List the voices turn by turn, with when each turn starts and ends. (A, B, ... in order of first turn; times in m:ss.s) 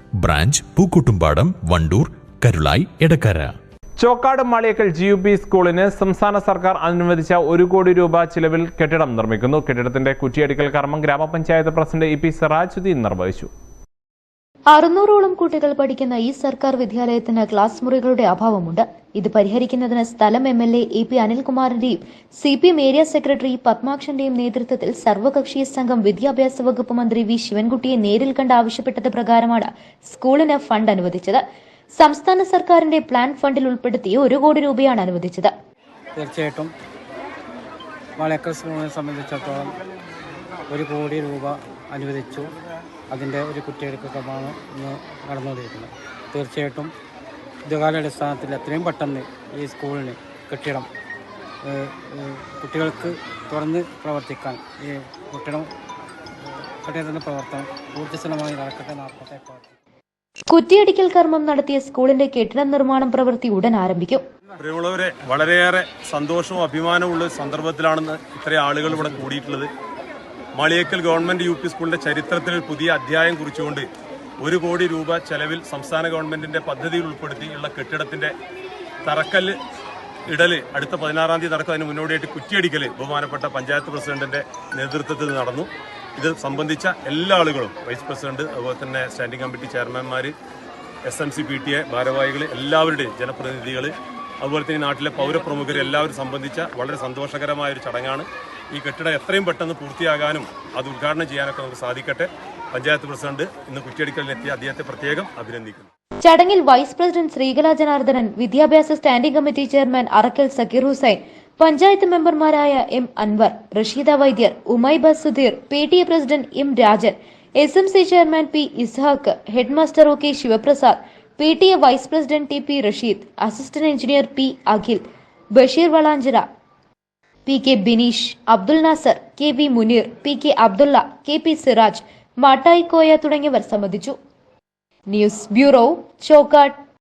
0:00.2-0:03.5 A
0:04.0-0:13.5 B
0:14.7-0:31.4 C
0:32.0-0:35.5 C
0:36.2-0:36.7 D
0:38.2-0:39.8 D
0:40.7-0:42.6 D
0:43.1-0:46.9 D
0:47.7-0:50.9 D
0:51.6-0:55.7 D
0:56.8-0:59.7 D
1:00.5-1:04.2 C
1:04.6-1:09.7 E
1:10.6-1:13.9 E
1:14.4-1:18.3 E
1:19.0-1:19.6 E
1:20.3-1:30.3 E
1:31.0-1:45.9 E
1:46.2-2:05.0 C
2:05.6-2:06.4 C
2:07.4-2:14.2 C
2:15.1-2:16.7 C